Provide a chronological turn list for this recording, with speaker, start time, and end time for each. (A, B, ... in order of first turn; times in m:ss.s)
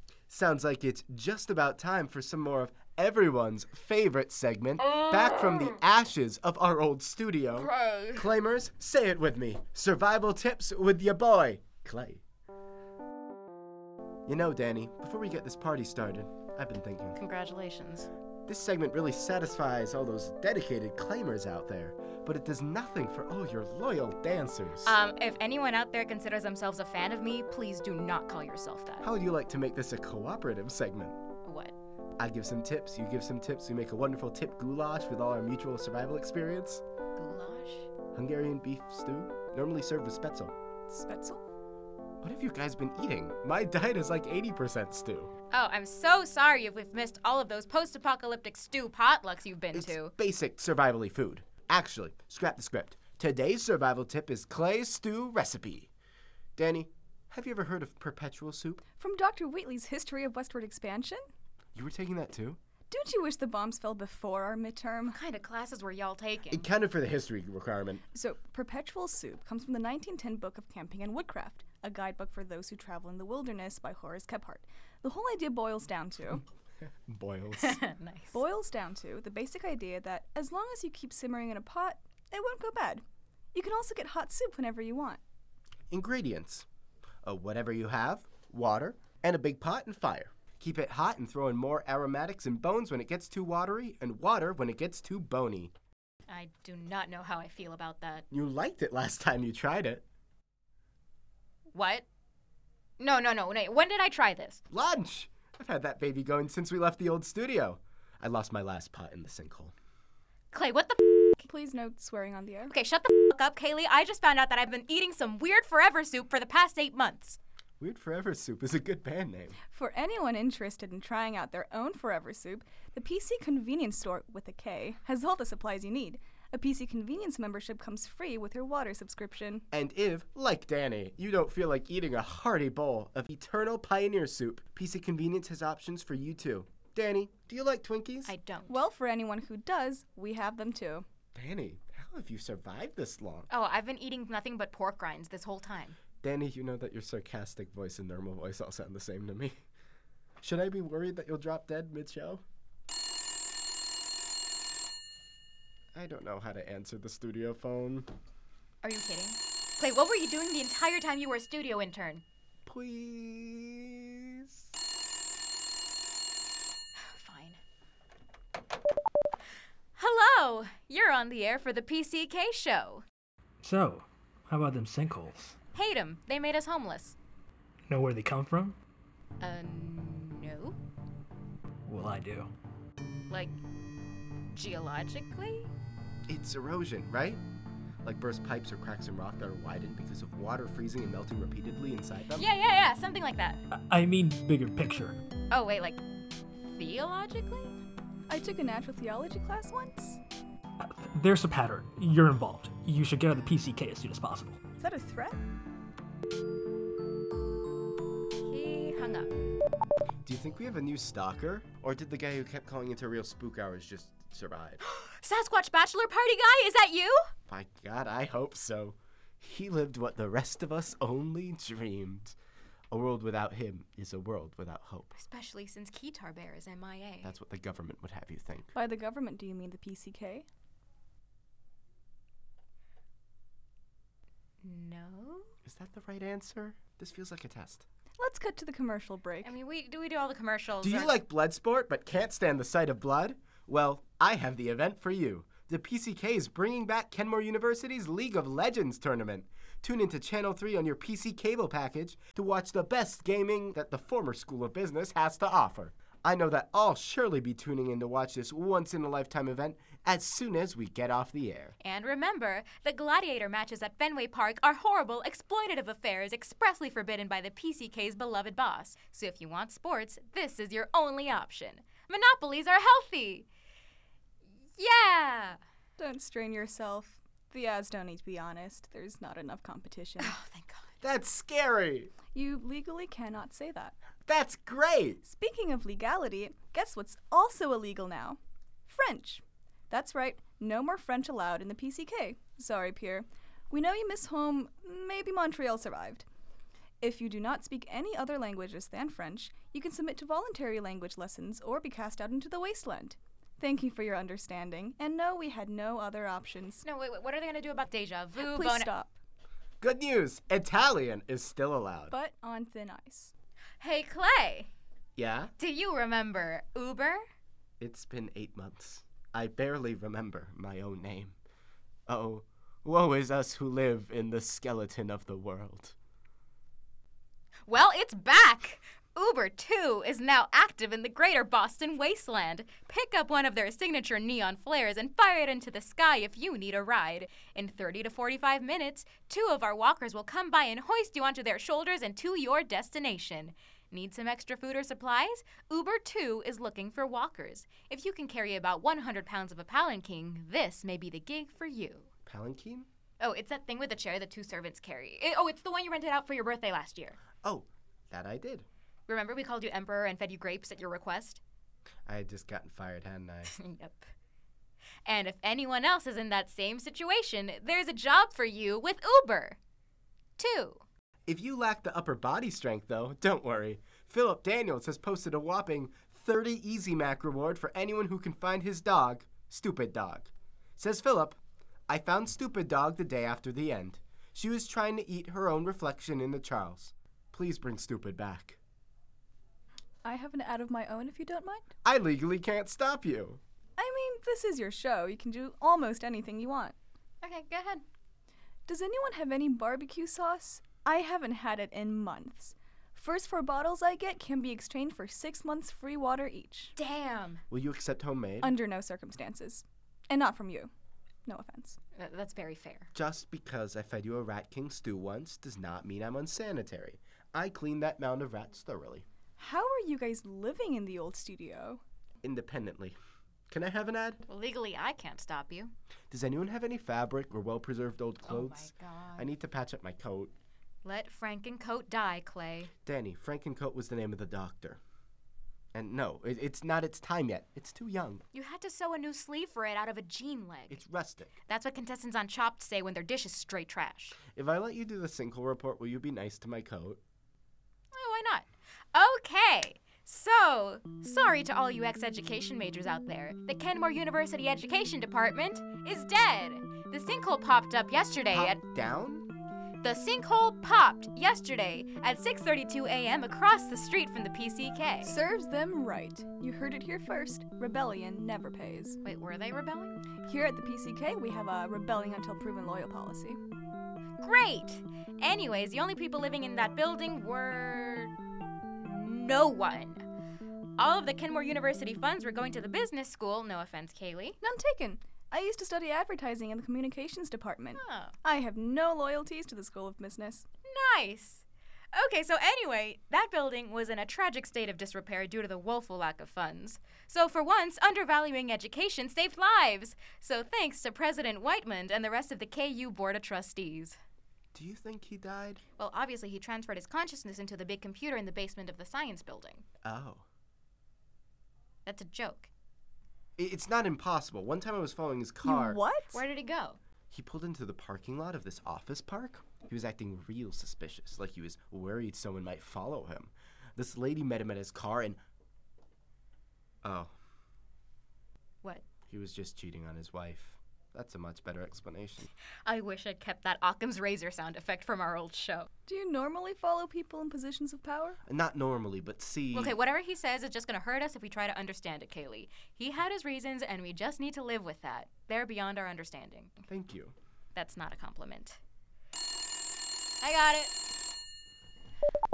0:00.3-0:12.2 A
0:07.6-0:08.2 B
0:14.3-0:17.2 A
0:17.2-0:18.1 B
0:18.5-0:25.0 A
0:24.8-0:29.1 B
0:29.0-0:31.2 A
0:31.4-0:31.7 B
0:32.2-0:36.8 A
0:37.2-0:37.9 B
0:38.1-0:40.5 A
0:40.9-0:41.4 C
0:42.2-0:45.3 A
0:45.5-0:50.1 B
0:49.7-0:55.9 A
0:56.6-0:58.8 A
0:59.0-1:01.2 C
1:01.7-1:02.6 A
1:02.9-1:05.2 C
1:05.1-1:06.7 B
1:06.5-1:08.0 A
1:08.1-1:16.4 C
1:17.1-1:17.8 A
1:17.6-1:18.4 B
1:18.3-1:23.0 C
1:23.5-1:25.2 C
1:25.9-1:26.6 A
1:27.2-1:35.7 A
1:36.3-1:38.2 B
1:38.3-1:40.0 A
1:41.7-1:42.0 B
1:43.0-1:44.6 B
1:44.7-1:49.7 A
1:50.5-1:51.4 B
1:51.4-1:52.7 C
1:52.7-1:57.4 B
1:57.8-1:59.6 A
1:59.7-2:09.6 C
2:09.7-2:18.3 A
2:18.2-2:18.8 B
2:18.7-2:21.0 C
2:21.3-2:23.5 A
2:23.5-2:26.0 B
2:26.2-2:29.6 A
2:30.4-2:32.4 A
2:35.9-2:38.1 A
2:38.8-2:42.2 B
2:42.6-2:44.6 A
2:47.1-2:47.6 B
2:49.9-2:53.0 B
2:53.6-2:55.6 D
2:55.7-2:57.2 B
2:57.9-2:58.8 D
2:59.4-3:00.8 B
3:01.9-3:02.5 D
3:03.3-3:03.6 B
3:04.5-3:05.7 B
3:06.3-3:07.4 A
3:08.0-3:12.5 A
3:12.3-3:13.6 B
3:13.9-3:15.2 D
3:15.5-3:16.0 B
3:16.6-3:17.8 B
3:18.3-3:20.2 C
3:20.8-3:24.6 D
3:24.8-3:25.4 C
3:28.4-3:29.3 B
3:30.2-3:34.8 A
3:34.8-3:37.2 B
3:37.5-3:42.4 A
3:42.9-3:45.1 A
3:45.1-3:47.3 B
3:47.2-3:48.7 A
3:48.7-3:50.4 C
3:54.6-3:55.5 B
3:55.6-3:57.8 A
3:58.2-3:59.5 C
3:59.4-4:01.2 B
4:00.8-4:21.8 A
4:21.8-4:33.5 B
4:34.8-4:35.6 B
4:36.0-4:40.3 C
4:40.2-4:40.9 B
4:41.0-4:42.1 A
4:42.3-4:43.9 C
4:44.2-4:45.2 A
4:45.2-4:56.2 C
4:57.0-5:06.8 C
5:06.8-5:08.9 B
5:08.4-5:09.2 C
5:09.8-5:12.1 A
5:12.1-5:13.3 C
5:13.8-5:14.7 B
5:15.2-5:15.5 A
5:15.6-5:17.2 B
5:17.8-5:21.4 A
5:22.1-5:25.9 A
5:27.7-5:52.1 B
5:52.2-5:52.9 A
5:53.2-5:57.2 B
5:57.4-5:58.7 A
5:59.1-6:01.4 B
6:02.1-6:03.5 A
6:03.4-6:04.0 B
6:05.0-6:09.6 B
6:10.4-6:10.8 B
6:11.3-6:28.6 A
6:30.0-6:31.7 C
6:31.8-6:33.4 A
6:33.8-6:36.7 C
6:37.2-6:37.8 B
6:38.7-6:46.7 C
6:46.8-6:47.4 B
6:47.5-6:48.5 A
6:48.4-6:50.7 C
6:51.2-6:51.8 C
6:51.9-6:52.9 B
6:52.9-6:59.0 A
6:59.4-7:01.8 C
7:02.2-7:03.0 A
7:03.5-7:04.2 A
7:04.3-7:05.7 B
7:06.1-7:10.3 A
7:08.3-7:09.3 B
7:10.8-7:12.7 B
7:12.8-7:14.8 A
7:15.7-7:18.2 A
7:18.3-7:20.8 B
7:20.7-7:21.3 A
7:21.5-7:24.2 B
7:24.3-7:27.0 A
7:27.9-7:38.6 B
7:38.3-7:39.3 A
7:39.8-7:45.1 B
7:45.0-7:49.0 C
7:49.0-7:50.0 B
7:50.2-7:53.4 C
7:54.2-7:58.1 B
7:58.8-8:00.0 B
8:00.8-8:04.4 B
8:04.4-8:10.4 C
8:07.8-8:08.1 B
8:10.6-8:24.0 B
8:24.5-8:25.6 A
8:25.8-8:29.6 B
8:29.8-8:30.2 A
8:31.8-8:32.5 B
8:33.4-8:35.8 A
8:35.4-8:36.2 C
8:36.1-8:36.8 B
8:37.1-8:45.2 A
8:46.8-8:47.1 A
8:49.1-8:52.3 A
8:52.6-8:55.7 B
8:55.9-8:58.2 C
8:58.2-8:59.8 A
8:59.5-9:06.6 B
9:06.7-9:07.1 A
9:07.5-9:08.6 B
9:10.2-9:10.7 B